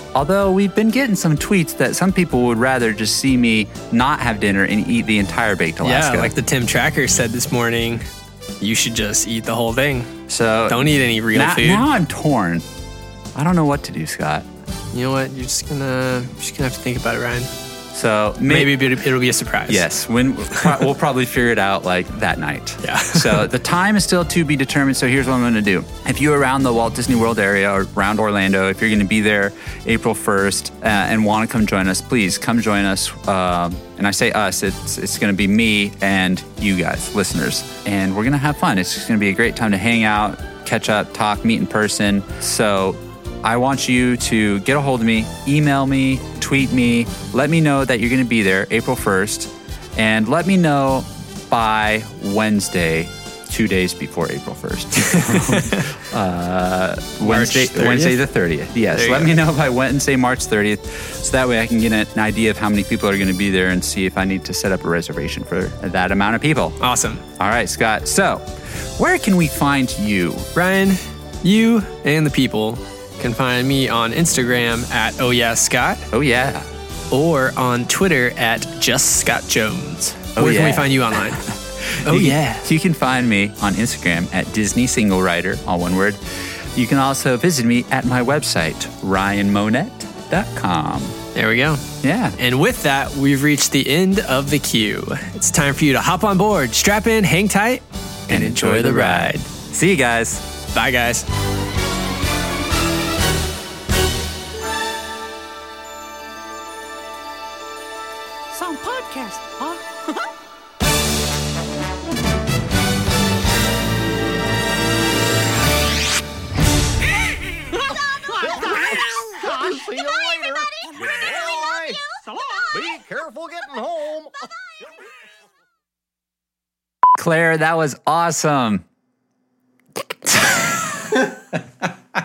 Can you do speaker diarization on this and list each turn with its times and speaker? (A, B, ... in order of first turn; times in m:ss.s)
0:00.1-0:06.3 A
0:05.8-0:08.0 B
0:08.6-0:10.1 B
0:10.3-0:12.7 A
0:10.7-0:11.9 B
0:13.4-0:14.5 A
0:14.9-0:17.5 B
0:17.9-0:18.9 A
0:18.4-0:19.9 B
0:19.7-1:06.8 A
0:20.5-0:20.8 B
0:22.8-0:23.5 B
0:55.0-0:55.9 B
0:57.2-0:58.2 B
0:58.9-0:59.4 B
1:06.8-1:07.2 B
1:07.4-1:10.5 A
1:10.6-1:16.1 B
1:16.1-1:16.7 A
1:17.1-1:21.4 B
1:20.4-1:31.2 A
1:22.0-1:22.7 B
1:31.4-1:39.5 B
1:32.0-1:32.4 A
1:38.3-1:40.5 A
1:40.7-1:41.3 B
1:48.5-1:49.8 A
1:58.3-2:04.9 C
2:07.2-2:08.8 A